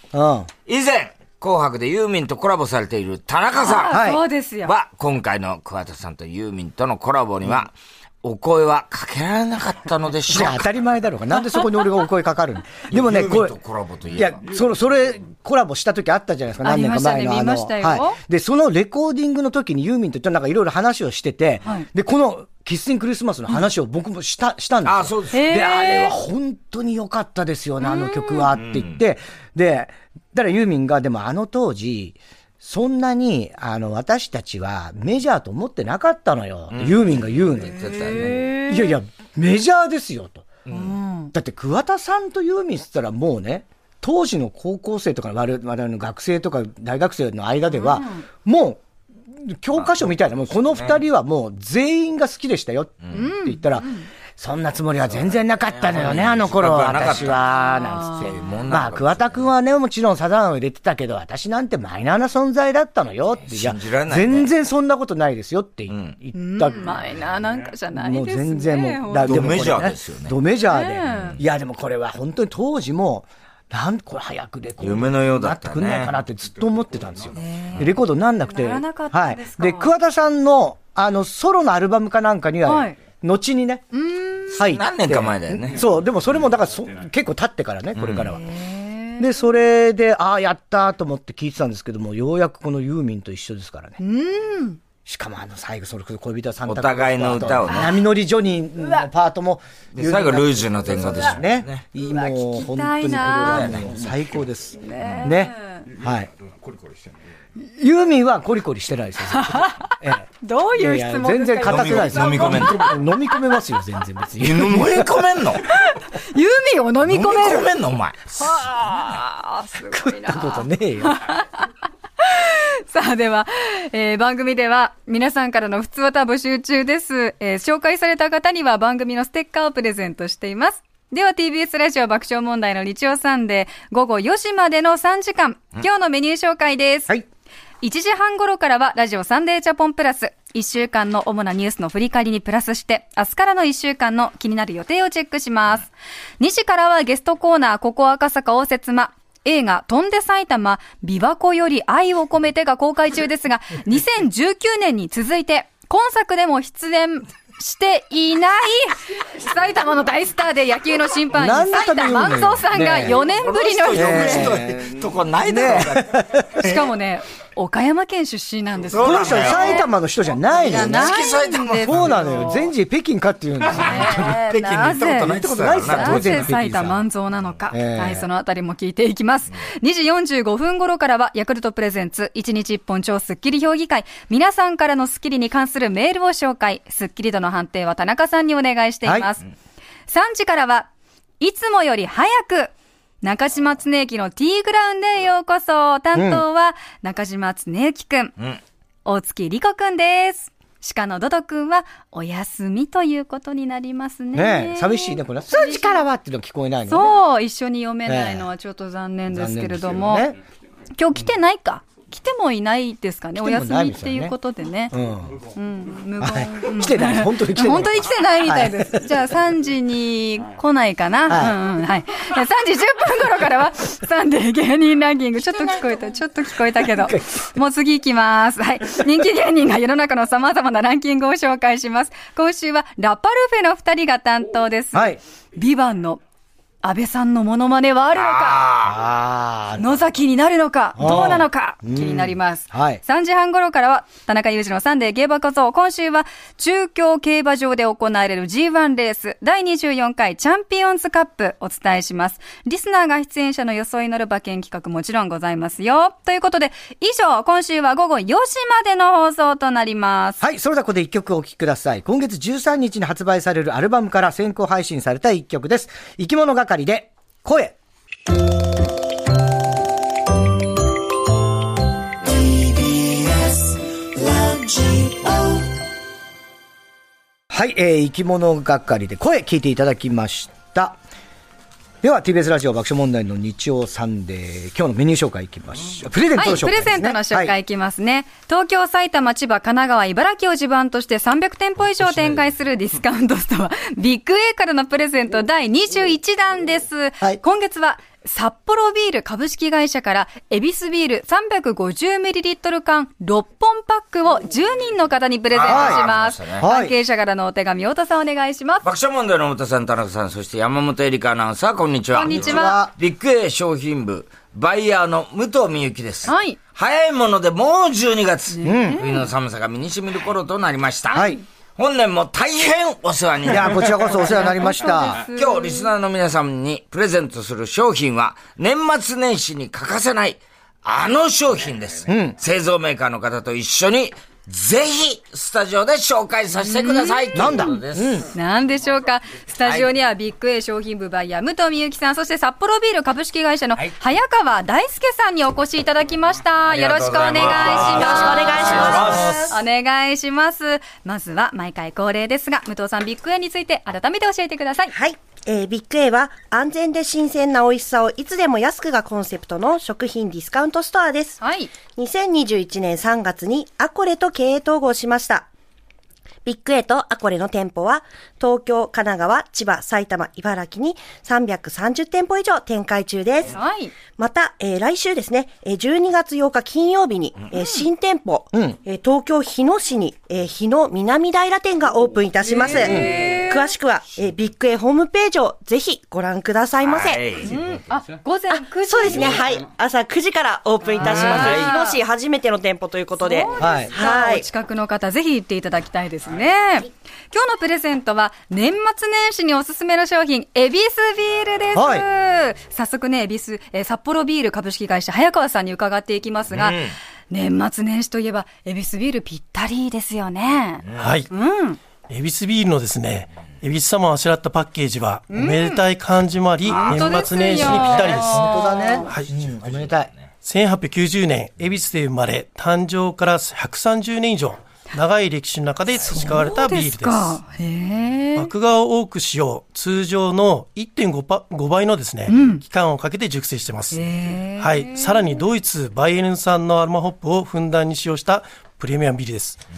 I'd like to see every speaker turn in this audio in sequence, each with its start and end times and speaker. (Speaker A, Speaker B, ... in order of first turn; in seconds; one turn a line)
Speaker A: 0.1-0.5
Speaker B: 0.7-4.0
Speaker C: 3.6-4.7
Speaker A: 3.9-4.2
Speaker B: 4.6-10.7
Speaker A: 10.3-13.5
Speaker B: 12.9-14.4
Speaker A: 14.1-37.9
Speaker C: 16.6-18.2
Speaker B: 24.8-25.4
Speaker C: 25.3-26.1
Speaker C: 27.8-28.5
Speaker B: 28.5-29.0
Speaker B: 36.7-38.4
Speaker C: 37.7-39.0
Speaker A: 38.7-40.6
Speaker B: 40.7-40.9
Speaker C: 40.7-41.3
Speaker A: 41.3-48.8
Speaker C: 47.7-48.2
Speaker A: 49.3-67.0
Speaker B: 49.8-51.0
Speaker C: 53.1-54.1
Speaker B: 55.1-57.4
Speaker C: 57.5-58.4
Speaker B: 58.2-59.5
Speaker B: 63.4-64.5
Speaker B: 65.9-66.2
Speaker C: 66.3-69.5
Speaker A: 67.9-83.9
Speaker B: 69.2-70.3
Speaker C: 70.6-71.4
Speaker B: 71.1-71.4
Speaker B: 74.8-76.1
Speaker C: 77.4-79.9
Speaker C: 82.7-83.0
Speaker C: 83.9-84.5
Speaker A: 84.5-88.4
Speaker B: 84.5-85.8
Speaker B: 88.0-88.3
Speaker C: 88.4-89.3
Speaker A: 89.2-94.0
Speaker C: 94.0-94.8
Speaker A: 95.0-106.3
Speaker B: 96.7-98.0
Speaker C: 98.8-99.1
Speaker B: 99.9-101.8
Speaker C: 102.0-103.8
Speaker B: 103.3-104.0
Speaker C: 104.8-105.9
Speaker B: 105.0-105.3
Speaker A: 107.5-115.2
Speaker C: 109.3-113.0
Speaker B: 111.6-112.9
Speaker B: 114.4-115.7
Speaker C: 115.7-117.7
Speaker B: 117.0-118.6
Speaker C: 118.4-121.7
Speaker A: 119.9-121.2
Speaker C: 122.2-137.1
Speaker C: 137.8-145.9
Speaker C: 146.4-164.5
Speaker A: 161.3-163.2
Speaker B: 163.1-166.8
Speaker A: 163.9-166.7
Speaker C: 166.6-169.9
Speaker B: 168.9-169.8
Speaker A: 169.0-171.1
Speaker C: 170.6-172.7
Speaker B: 170.7-172.2
Speaker A: 171.8-174.4
Speaker C: 173.7-189.4
Speaker B: 173.8-176.6
Speaker A: 175.2-177.0
Speaker A: 177.7-178.2
Speaker A: 189.0-189.3
Speaker C: 190.1-190.9
Speaker C: 191.4-192.7
Speaker C: 193.2-198.3
Speaker A: 196.1-196.4
Speaker C: 199.0-206.0
Speaker A: 204.3-207.1
Speaker C: 206.9-210.3
Speaker A: 208.1-208.5
Speaker A: 209.3-210.4
Speaker C: 211.0-214.9
Speaker A: 213.3-214.3
Speaker A: 214.9-215.4
Speaker C: 215.5-236.2
Speaker A: 216.2-219.1
Speaker A: 221.3-221.6
Speaker A: 226.8-227.4
Speaker A: 234.9-235.2
Speaker C: 236.8-238.7
Speaker B: 238.1-238.9
Speaker A: 238.8-240.0
Speaker C: 239.8-260.4
Speaker A: 240.9-243.0
Speaker A: 260.4-267.7
Speaker A: 277.5-281.0
Speaker A: 282.0-287.5
Speaker C: 286.3-308.9
Speaker B: 305.5-306.6
Speaker A: 305.6-306.0
Speaker A: 306.6-306.9
Speaker B: 308.8-324.3
Speaker C: 312.1-312.8
Speaker A: 312.2-312.9
Speaker C: 316.2-316.6
Speaker C: 318.5-319.3
Speaker A: 318.6-319.0
Speaker A: 321.1-321.4
Speaker C: 321.1-321.4
Speaker A: 323.4-325.2
Speaker C: 324.1-325.9
Speaker B: 325.3-338.2
Speaker A: 332.1-332.4
Speaker C: 336.6-337.7
Speaker A: 337.3-338.3
Speaker C: 338.3-354.9
Speaker B: 339.6-339.9
Speaker B: 346.7-349.5
Speaker D: 347.8-349.6
Speaker D: 354.9-361.4
Speaker C: 361.4-361.7
Speaker D: 361.9-365.5
Speaker D: 366.4-373.6
Speaker C: 373.5-373.9
Speaker D: 374.1-387.2
Speaker C: 377.6-377.8
Speaker C: 382.4-383.7
Speaker A: 382.8-383.1
Speaker B: 386.8-387.5
Speaker C: 387.4-389.4
Speaker D: 388.5-394.4
Speaker C: 390.8-392.0
Speaker B: 391.0-391.7
Speaker C: 393.2-411.8
Speaker A: 393.6-393.9
Speaker A: 401.7-402.0
Speaker B: 406.5-406.9
Speaker E: 411.0-411.3
Speaker E: 412.1-419.3
Speaker C: 415.3-415.8
Speaker C: 416.7-419.1
Speaker B: 416.7-417.1
Speaker A: 417.7-420.1
Speaker B: 419.3-420.1
Speaker E: 420.4-427.4
Speaker C: 426.1-428.5
Speaker E: 428.3-434.0
Speaker C: 432.3-432.6
Speaker C: 433.9-435.4
Speaker E: 434.6-439.6